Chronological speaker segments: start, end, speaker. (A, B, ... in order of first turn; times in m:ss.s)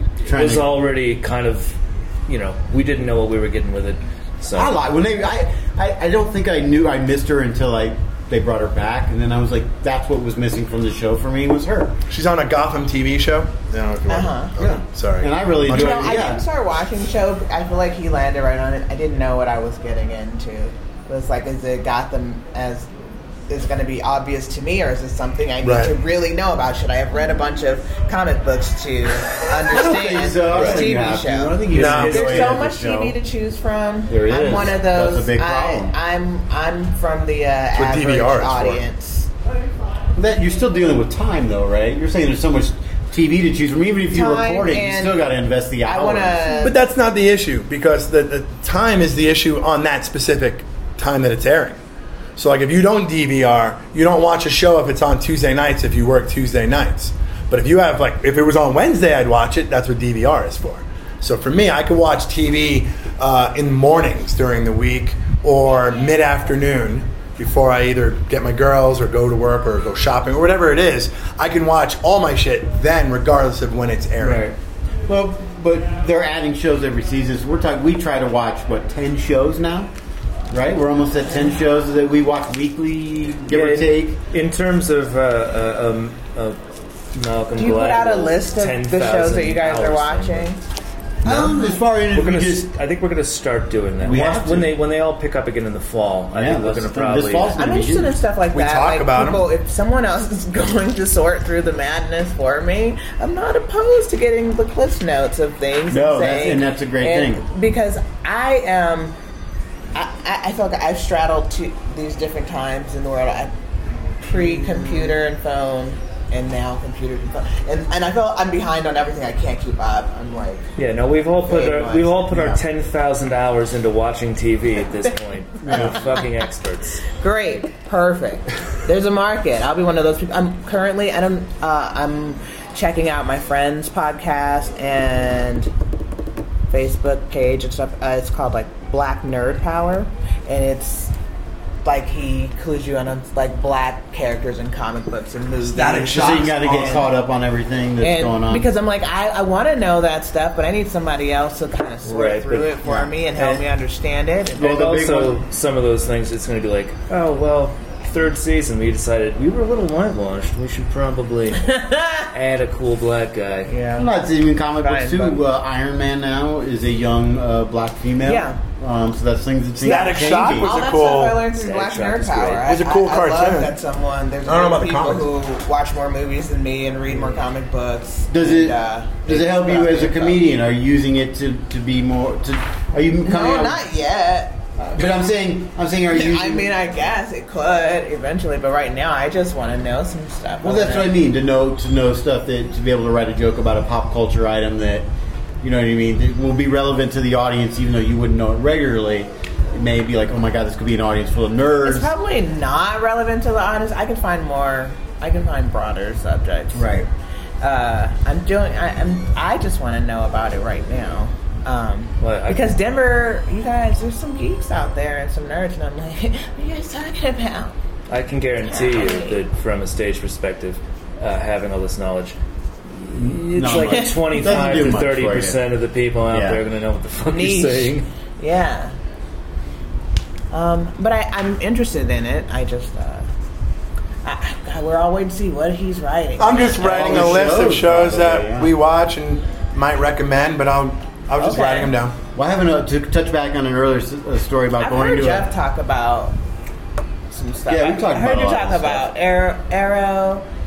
0:00.2-0:04.8 A
0:00.3-0:00.7 B
0:04.5-0:12.0 B
0:12.1-0:16.3 C
0:14.1-0:14.5 D
0:14.6-0:16.4 B
0:15.7-0:22.9 D
0:23.5-0:39.3 D
0:25.6-0:25.9 C
0:29.6-0:33.2 B
0:31.7-0:32.5 A
0:31.7-0:32.4 C
0:34.1-0:36.0 B
0:37.8-0:38.8 C
0:40.2-0:46.7 B
0:44.1-0:45.3 D
0:45.8-0:46.8 D
0:46.6-0:51.8 C
0:52.4-1:14.5 C
1:14.2-1:14.5 A
1:15.1-1:19.9 B
1:20.5-1:24.2 B
1:23.5-1:26.6 A
1:27.1-1:30.5 A
1:27.6-1:30.6 D
1:31.2-1:32.7 B
1:31.3-1:31.5 C
1:32.1-1:37.6 A
1:34.0-1:34.8 B
1:36.3-1:38.2 B
1:37.6-1:49.2 D
1:38.5-1:39.5 C
1:45.9-1:47.4 B
1:50.0-1:53.5 D
1:54.2-2:00.7 D
2:00.8-2:07.0 A
2:01.5-2:02.2 D
2:02.3-2:02.6 B
2:05.6-2:06.0 B
2:07.2-2:15.7 D
2:16.7-2:21.1 D
2:21.8-2:26.9 D
2:25.6-2:27.1 C
2:26.1-2:28.7 B
2:28.0-2:34.7 D
2:32.0-2:32.8 A
2:32.8-2:33.1 B
2:33.4-2:33.6 A
2:34.6-2:35.4 B
2:34.6-2:43.7 A
2:41.7-2:42.3 D
2:43.7-2:44.1 D
2:44.0-2:50.8 B
2:44.8-2:45.4 D
2:48.2-2:48.6 D
2:49.8-2:51.4 C
2:49.8-3:00.4 D
2:51.5-2:52.7 A
2:52.6-2:53.8 C
2:54.5-2:55.3 C
2:58.3-3:03.8 B
3:03.2-3:05.1 D
3:04.9-3:06.7 B
3:06.1-3:11.2 D
3:10.6-3:15.1 B
3:15.6-3:22.1 B
3:21.8-3:27.1 D
3:26.7-3:27.1 B
3:27.6-3:37.8 D
3:32.2-3:32.8 A
3:38.1-3:42.4 A
3:38.7-3:39.4 D
3:43.0-3:48.1 A
3:43.1-3:45.6 B
3:43.9-3:44.8 D
3:46.3-3:46.6 B
3:47.3-3:49.0 D
3:50.5-3:53.3 D
3:54.2-3:57.2 D
3:56.4-4:02.2 C
3:56.8-3:58.7 B
4:01.4-4:01.9 D
4:02.4-4:05.5 B
4:04.8-4:06.4 D
4:07.3-4:10.5 D
4:07.7-4:09.1 B